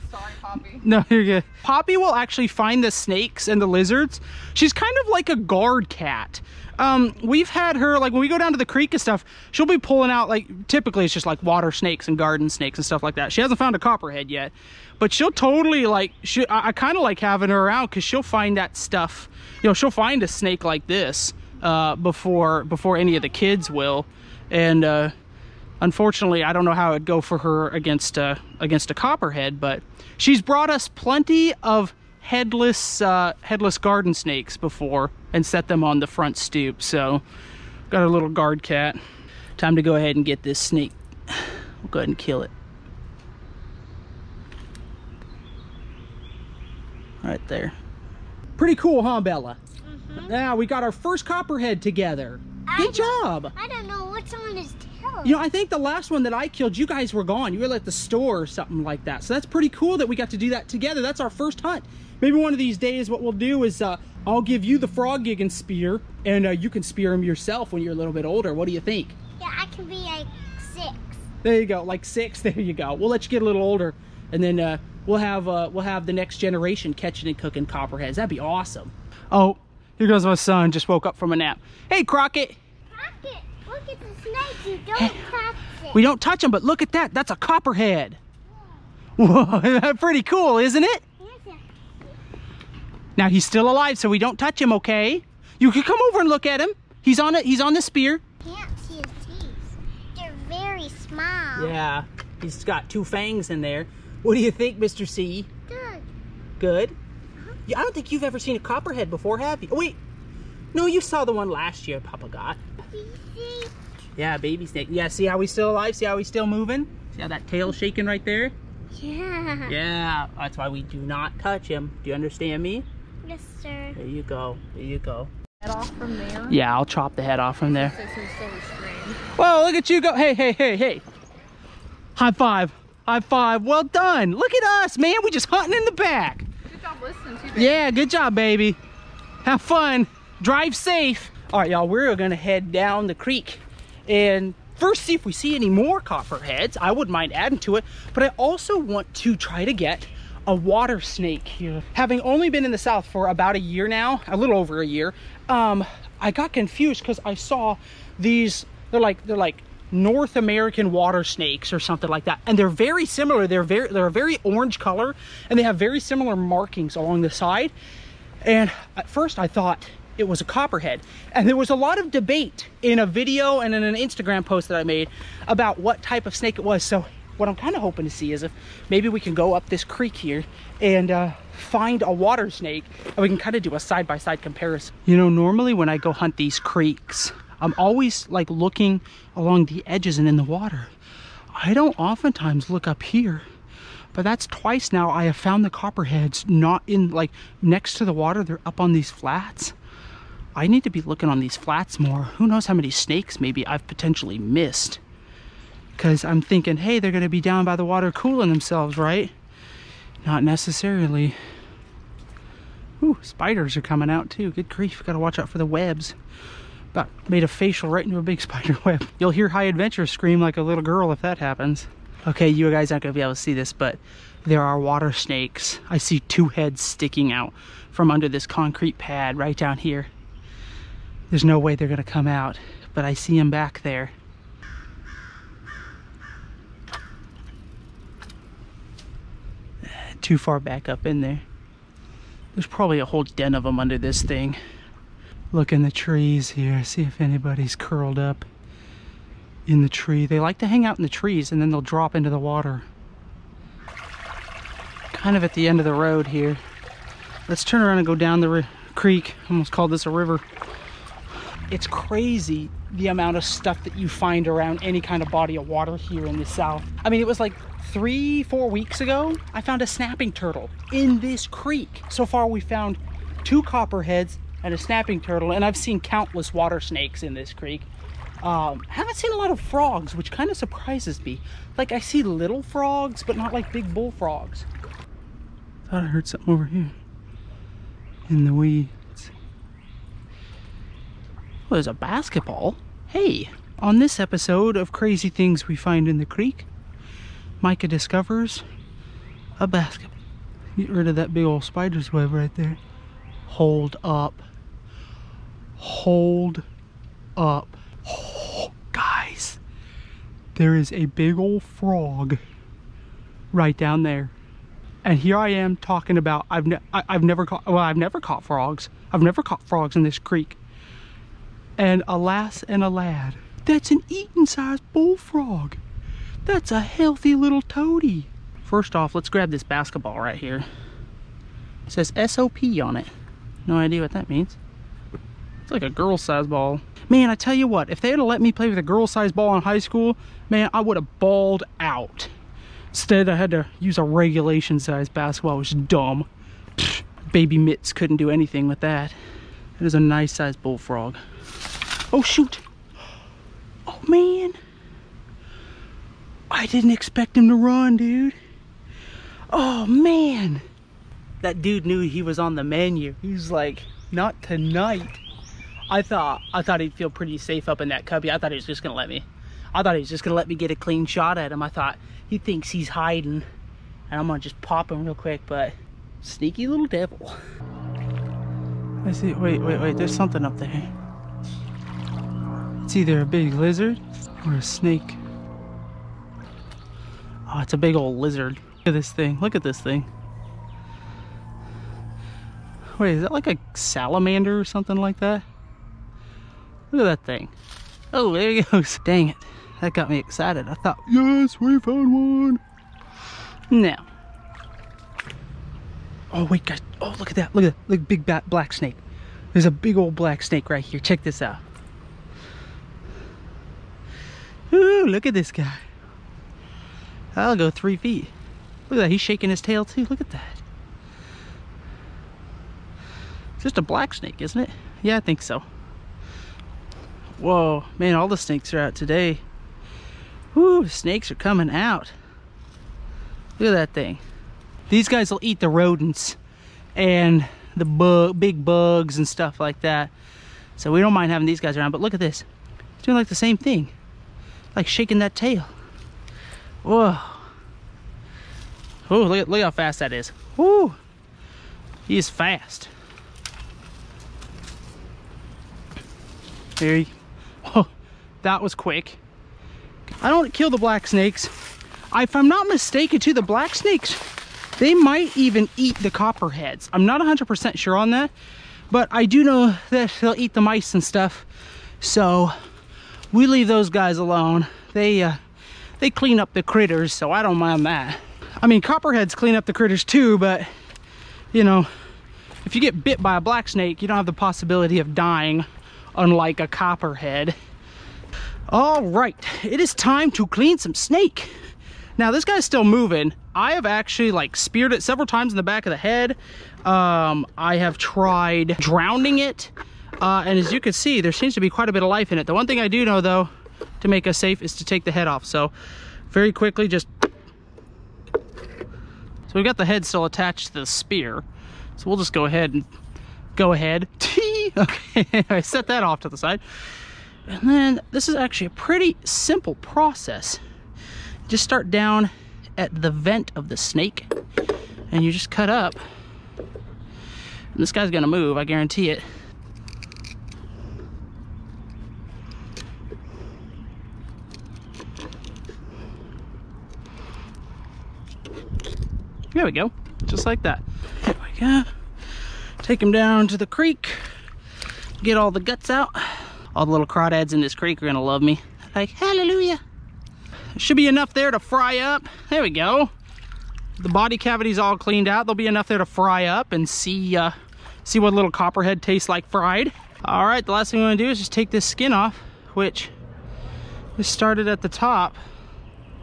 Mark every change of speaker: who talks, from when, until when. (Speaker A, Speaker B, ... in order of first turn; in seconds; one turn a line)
Speaker A: 0.1-0.8
Speaker B: 0.7-25.1
Speaker B: 25.8-37.2
Speaker B: 37.9-39.0
Speaker B: 39.6-42.5
Speaker B: 47.2-47.8
Speaker B: 48.6-49.6
Speaker C: 49.8-50.4
Speaker B: 50.2-53.5
Speaker C: 52.7-55.4
Speaker B: 55.2-69.2
Speaker C: 69.4-71.2
Speaker B: 71.4-82.6
Speaker C: 82.9-86.0
Speaker B: 85.0-85.2
Speaker B: 85.9-88.2
Speaker B: 89.2-91.0
Speaker C: 91.2-91.7
Speaker B: 93.2-98.2
Speaker C: 98.4-101.7
Speaker B: 101.5-105.5
Speaker C: 105.7-106.1
Speaker B: 106.6-106.9
Speaker B: 107.7-110.0
Speaker B: 110.7-112.6
Speaker C: 112.9-113.7
Speaker B: 114.2-118.5
Speaker C: 118.9-119.7
Speaker B: 119.7-122.8
Speaker C: 123.2-124.0
Speaker B: 124.0-125.3
Speaker A: 125.6-126.6
Speaker B: 126.5-127.9
Speaker A: 127.7-129.2
Speaker B: 129.3-131.0
Speaker B: 132.2-136.5
Speaker A: 136.7-137.8
Speaker B: 137.5-138.8
Speaker B: 139.4-167.7
Speaker B: 168.4-190.9
Speaker B: 191.5-193.4
Speaker B: 194.1-199.7
Speaker B: 200.5-205.0
Speaker B: 205.9-209.3
Speaker B: 210.2-211.4
Speaker B: 213.0-216.2
Speaker B: 216.9-230.1
Speaker B: 231.3-234.1
Speaker B: 239.9-241.4
Speaker B: 242.5-244.6
Speaker B: 245.5-248.4
Speaker B: 249.7-252.8
Speaker B: 255.1-256.6
Speaker B: 257.5-260.4
Speaker B: 261.7-277.9
Speaker B: 278.4-284.6
Speaker B: 285.9-286.9
Speaker B: 288.3-289.3
Speaker B: 291.7-296.7
Speaker B: 297.6-298.6
Speaker B: 299.6-300.1
Speaker B: 300.8-302.8
Speaker B: 303.5-304.4
Speaker B: 305.8-306.6
Speaker B: 307.4-309.6
Speaker B: 310.5-312.4
Speaker B: 313.5-314.3
Speaker B: 315.0-320.6
Speaker B: 321.8-325.8
Speaker B: 326.4-330.7
Speaker B: 331.9-333.1
Speaker B: 333.6-334.6
Speaker B: 335.7-342.3
Speaker B: 342.9-349.1
Speaker B: 349.8-351.2
Speaker B: 352.1-352.6
Speaker B: 353.9-354.6
Speaker B: 356.5-358.4
Speaker B: 359.5-360.6
Speaker B: 361.4-365.2
Speaker B: 365.9-373.4
Speaker B: 374.1-377.4
Speaker B: 379.0-380.9
Speaker B: 382.9-385.2
Speaker B: 387.5-390.1
Speaker B: 393.0-395.4
Speaker B: 396.9-397.5
Speaker B: 398.1-402.6
Speaker B: 403.7-404.1
Speaker B: 406.3-409.0
Speaker B: 409.5-411.6
Speaker B: 414.7-415.8
Speaker B: 417.3-418.3
Speaker B: 418.9-420.6
Speaker B: 423.6-425.6
Speaker B: 427.4-429.4
Speaker B: 430.5-432.1
Speaker B: 433.6-434.2
Speaker B: 434.9-436.4
Speaker B: 436.9-440.1
Speaker B: 440.8-442.4
Speaker B: 443.0-443.9
Speaker B: 444.7-445.7
Speaker B: 446.8-447.4
Speaker B: 449.1-451.0
Speaker B: 452.1-452.9
Speaker B: 456.8-457.1
Speaker B: 457.6-457.9
Speaker B: 458.4-459.2
Speaker B: 460.2-461.5
Speaker B: 462.1-464.2
Speaker B: 464.8-468.3
Speaker B: 468.9-471.4
Speaker B: 472.0-472.5
Speaker B: 473.3-475.4
Speaker B: 476.0-480.7
Speaker B: 481.5-481.9
Speaker B: 482.6-487.5
Speaker B: 488.7-491.5
Speaker B: 492.2-503.5
Speaker B: 504.0-505.7
Speaker B: 506.3-507.1
Speaker B: 509.5-511.4
Speaker B: 512.0-512.9
Speaker B: 513.5-516.6
Speaker B: 517.5-520.6
Speaker B: 521.5-524.3
Speaker B: 525.1-526.0
Speaker B: 527.7-529.2
Speaker B: 539.5-541.9
Speaker B: 542.8-544.2
Speaker B: 545.2-549.8
Speaker B: 550.7-553.1
Speaker B: 554.0-563.1
Speaker B: 564.2-565.4